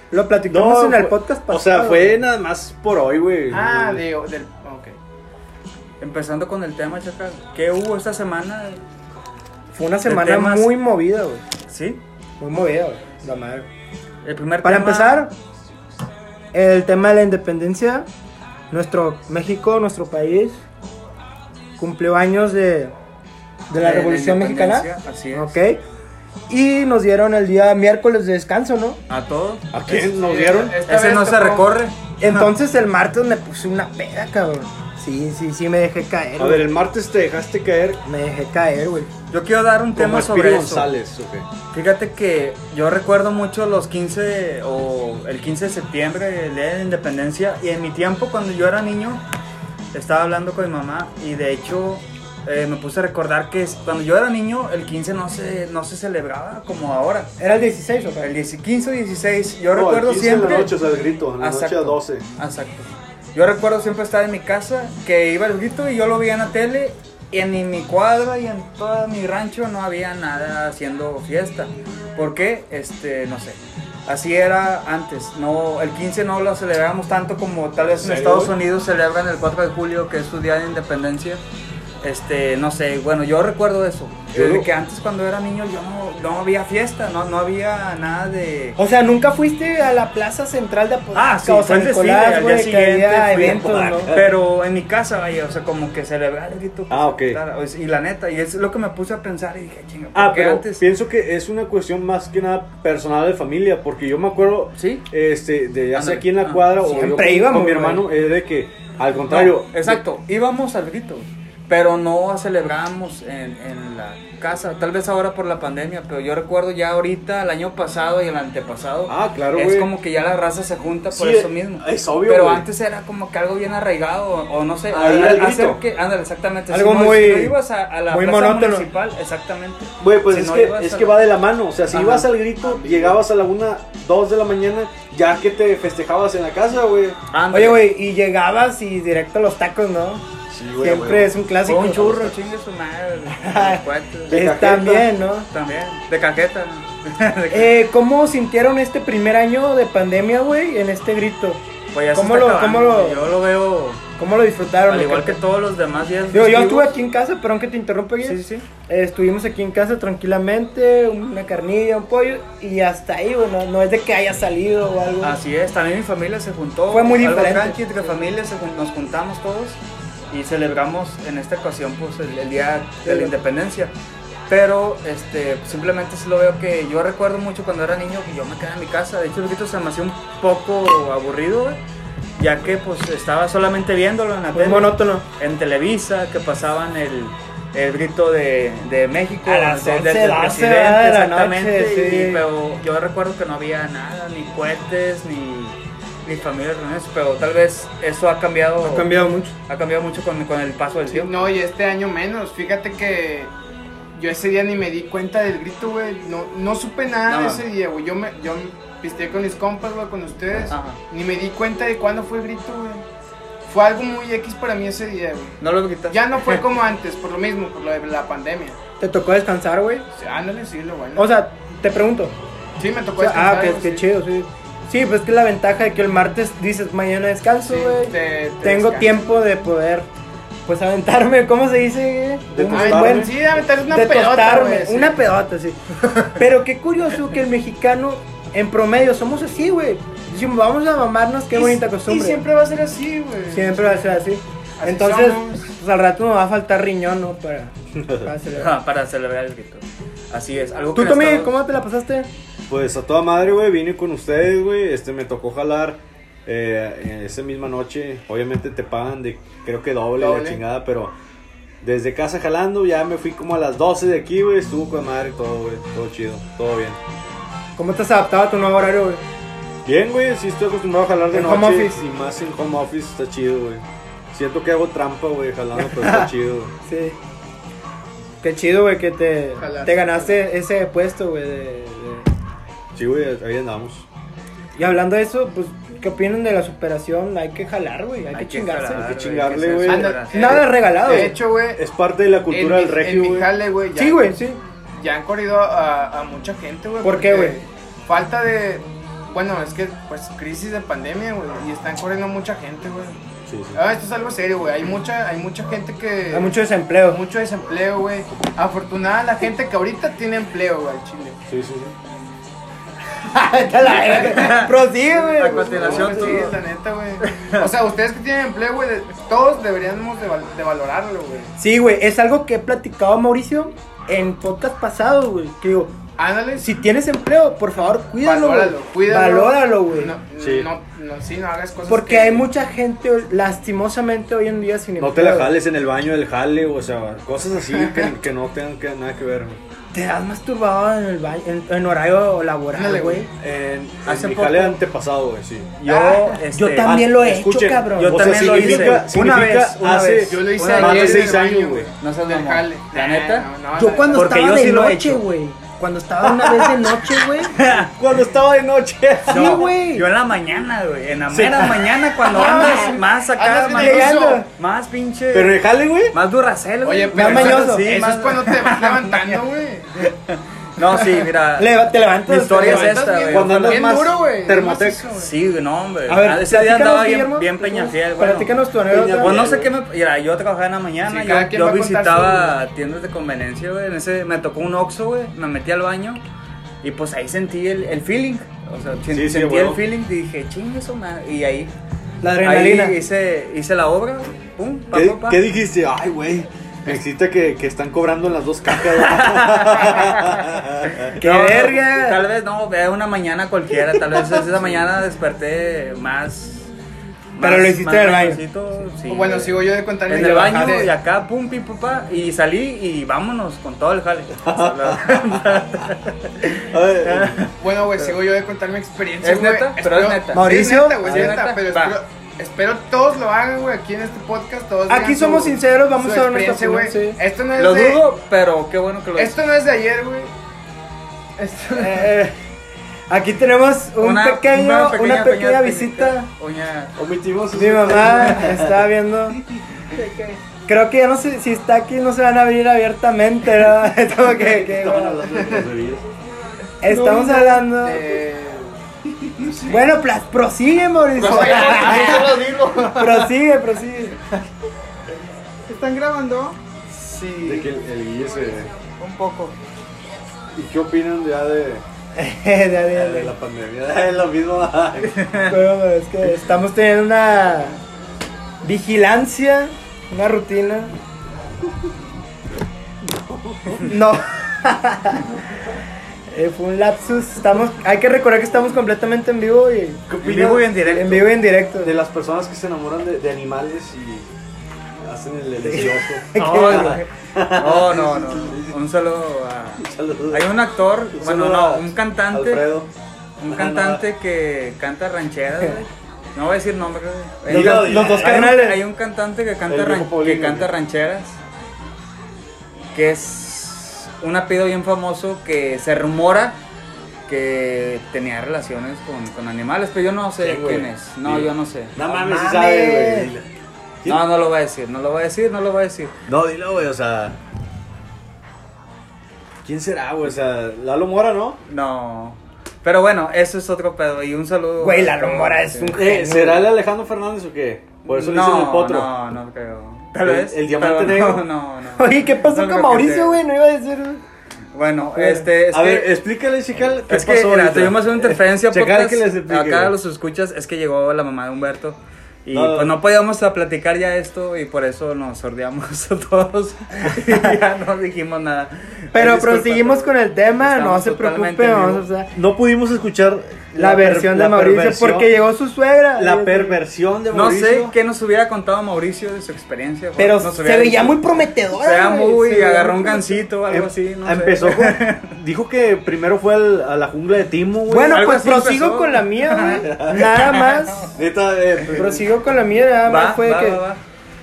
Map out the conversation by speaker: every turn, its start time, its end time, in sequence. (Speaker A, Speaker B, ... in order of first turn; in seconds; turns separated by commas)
Speaker A: 0.1-2.2, Speaker B: 0.5-4.0, Speaker C: 3.5-4.9, Speaker D: 6.0-8.8, Speaker A: 9.7-11.4, Speaker D: 10.1-10.8, Speaker D: 11.7-12.0, Speaker A: 12.4-13.7, Speaker D: 14.2-15.3, Speaker A: 14.6-15.3, Speaker A: 16.5-18.1, Speaker A: 18.7-20.6, Speaker A: 21.8-22.9, Speaker A: 23.7-25.8, Speaker D: 23.8-25.6, Speaker A: 26.5-29.0, Speaker D: 29.1-30.1, Speaker B: 29.7-30.8, Speaker C: 30.2-31.7, Speaker D: 30.9-32.5, Speaker A: 32.2-36.7, Speaker B: 36.4-38.0, Speaker A: 38.0-39.1, Speaker D: 39.3-40.9, Speaker B: 40.0-41.5, Speaker D: 41.7-49.2, Speaker D: 49.9-57.3, Speaker A: 57.4-58.3, Speaker D: 58.2-60.7, Speaker B: 59.7-62.2, Speaker D: 61.4-81.4, Speaker B: 77.9-78.6, Speaker D: 82.0-88.8, Speaker B: 84.3-84.7, Speaker A: 88.8-94.1, Speaker D: 91.2-100.9, Speaker B: 93.4-94.3, Speaker B: 96.9-97.4, Speaker B: 100.2-110.0, Speaker D: 104.8-105.0, Speaker D: 105.9-107.3, Speaker A: 106.9-108.0, Speaker D: 109.3-131.2, Speaker B: 119.1-119.9, Speaker B: 121.1-122.7, Speaker B: 124.9-125.8, Speaker A: 126.7-127.6, Speaker A: 128.1-128.9, Speaker B: 130.0-137.2, Speaker D: 131.9-133.2, Speaker D: 137.3-137.9, Speaker A: 137.5-140.3, Speaker B: 140.5-141.3, Speaker A: 140.8-142.4, Speaker D: 141.6-144.5, Speaker A: 143.3-145.5, Speaker B: 144.3-145.1, Speaker D: 145.5-147.9, Speaker A: 147.5-151.6, Speaker D: 151.9-154.0, Speaker A: 152.1-153.3, Speaker A: 154.2-155.4, Speaker D: 154.9-156.9, Speaker A: 156.3-165.4, Speaker D: 158.2-158.7, Speaker D: 165.2-169.8, Speaker A: 166.9-168.1, Speaker D: 170.3-173.9, Speaker A: 173.0-173.3, Speaker D: 174.5-181.8, Speaker D: 182.4-199.1, Speaker A: 184.5-185.2, Speaker A: 189.4-192.4, Speaker A: 198.8-199.5, Speaker D: 199.7-201.3, Speaker C: 201.1-203.5, Speaker C: 204.2-213.1, Speaker D: 207.3-207.7, Speaker D: 210.7-211.0, Speaker C: 213.7-215.6, Speaker D: 215.6-216.6, Speaker C: 216.1-218.8, Speaker A: 219.0-220.1, Speaker C: 220.2-221.3, Speaker A: 221.2-222.3, Speaker C: 222.8-224.1, Speaker A: 223.2-230.1, Speaker C: 227.7-229.3, Speaker A: 230.7-233.3, Speaker B: 232.5-233.6, Speaker C: 232.7-235.2, Speaker A: 233.9-242.4, Speaker C: 241.5-244.1, Speaker A: 243.5-248.7, Speaker C: 244.8-245.7, Speaker B: 248.0-248.3, Speaker D: 248.6-251.6, Speaker A: 250.9-252.3, Speaker B: 252.7-261.1, Speaker C: 260.2-260.6, Speaker B: 261.8-267.0, Speaker A: 267.8-269.2, Speaker B: 269.9-276.7, Speaker A: 271.3-272.0, Speaker A: 275.8-276.3, Speaker A: 276.9-277.2, Speaker A: 278.4-282.3, Speaker C: 279.6-280.4, Speaker B: 282.9-284.1, Speaker A: 284.8-289.1, Speaker D: 288.3-290.6, Speaker B: 289.0-290.2, Speaker C: 289.8-291.8, Speaker A: 290.3-291.4, Speaker B: 291.8-293.5, Speaker C: 292.5-294.3, Speaker A: 294.0-294.6, Speaker C: 295.0-303.2, Speaker A: 297.0-297.6, Speaker B: 303.5-303.8, Speaker C: 303.7-311.4, Speaker A: 306.3-307.2, Speaker B: 311.5-311.9, Speaker A: 313.2-316.5, Speaker C: 313.8-314.7, Speaker D: 314.1-316.5, Speaker C: 315.5-321.5, Speaker D: 317.3-317.7, Speaker A: 321.6-325.9, Speaker C: 326.2-326.7, Speaker A: 326.6-330.1, Speaker C: 328.2-332.5, Speaker B: 330.4-330.7, Speaker A: 331.9-335.6, Speaker B: 335.0-339.6, Speaker C: 337.7-338.1, Speaker A: 339.9-343.3, Speaker C: 342.7-343.3, Speaker B: 343.4-345.8, Speaker D: 344.1-344.8, Speaker D: 345.8-347.0, Speaker C: 345.9-346.4, Speaker A: 346.5-349.1, Speaker B: 346.8-351.9, Speaker D: 348.0-351.5, Speaker C: 350.3-354.3, Speaker D: 352.0-353.5, Speaker A: 353.8-357.5, Speaker D: 354.1-355.2, Speaker B: 356.3-356.8, Speaker D: 357.5-357.9, Speaker B: 357.8-359.6, Speaker A: 359.3-360.1, Speaker D: 359.3-365.6, Speaker B: 361.3-362.0, Speaker A: 362.3-363.0, Speaker C: 362.4-364.4, Speaker A: 363.7-364.5, Speaker B: 365.3-366.2, Speaker D: 366.1-369.4, Speaker C: 366.8-369.9, Speaker A: 367.1-367.9, Speaker D: 370.0-371.7, Speaker A: 371.6-373.0, Speaker D: 372.3-374.0, Speaker C: 372.6-375.3, Speaker B: 373.3-375.1, Speaker D: 375.2-378.5, Speaker A: 376.1-379.4, Speaker B: 378.9-379.7, Speaker D: 379.2-386.2, Speaker C: 381.1-382.6, Speaker D: 386.8-391.7, Speaker B: 389.1-389.8, Speaker A: 392.2-393.0, Speaker D: 392.4-395.4, Speaker B: 394.9-401.2, Speaker D: 398.8-400.5, Speaker D: 401.0-406.7, Speaker A: 401.2-402.2, Speaker B: 404.0-404.4, Speaker D: 407.4-418.1, Speaker A: 407.4-408.4, Speaker C: 409.1-410.9, Speaker A: 410.1-410.9, Speaker B: 414.4-415.7, Speaker B: 416.6-417.5, Speaker C: 417.6-428.0, Speaker D: 419.2-422.0, Speaker A: 420.3-421.3, Speaker A: 424.9-427.2, Speaker D: 427.6-429.4, Speaker C: 429.2-430.3, Speaker C: 431.4-432.1, Speaker A: 431.8-432.4, Speaker A: 433.1-436.3, Speaker D: 434.0-436.9, Speaker B: 437.0-438.9, Speaker A: 437.5-439.4, Speaker A: 440.6-445.3, Speaker B: 444.2-446.1, Speaker C: 445.4-445.6, Speaker A: 446.8-448.1, Speaker C: 446.9-448.8, Speaker A: 449.7-452.4, Speaker D: 451.2-453.3, Speaker C: 451.2-453.0, Speaker A: 452.9-454.2, Speaker D: 455.7-457.7, Speaker C: 455.7-456.2, Speaker B: 457.4-458.7, Speaker D: 459.0-459.6, Speaker B: 460.5-461.8, Speaker A: 462.2-463.3, Speaker B: 462.9-465.2, Speaker D: 465.1-465.5, Speaker A: 465.4-467.8, Speaker A: 468.6-470.9, Speaker B: 473.1-473.9, Speaker A: 473.8-475.3, Speaker A: 476.3-480.1, Speaker B: 480.1-484.3, Speaker D: 480.2-481.2, Speaker A: 480.9-481.9, Speaker B: 485.0-488.8, Speaker A: 485.7-487.0, Speaker D: 486.4-492.7, Speaker B: 489.8-490.5, Speaker B: 491.1-492.9, Speaker D: 493.4-501.4, Speaker B: 493.5-494.0, Speaker B: 497.5-498.6, Speaker A: 497.5-498.8, Speaker B: 499.7-500.7, Speaker D: 502.9-506.6, Speaker D: 507.3-512.0, Speaker B: 510.4-513.5, Speaker A: 512.1-513.3, Speaker D: 514.0-516.1, Speaker B: 516.3-517.4, Speaker B: 519.6-521.6, Speaker D: 521.7-526.0, Speaker A: 524.8-526.6, Speaker B: 525.9-529.1, Speaker D: 528.0-533.4, Speaker B: 530.2-531.5, Speaker A: 532.0-534.2, Speaker D: 534.7-536.1, Speaker A: 535.1-535.5, Speaker B: 535.7-540.0, Speaker D: 537.1-552.0, Speaker B: 542.5-543.0, Speaker A: 549.1-552.3, Speaker B: 552.3-555.3, Speaker A: 553.8-556.8, Speaker B: 556.2-558.0, Speaker D: 557.3-561.2, Speaker A: 560.2-563.5, Speaker D: 561.7-565.4, Speaker B: 563.7-568.3, Speaker A: 567.9-571.1, Speaker D: 568.1-571.1, Speaker B: 569.9-570.3, Speaker B: 571.1-572.3, Speaker A: 571.9-573.8, Speaker D: 573.0-574.0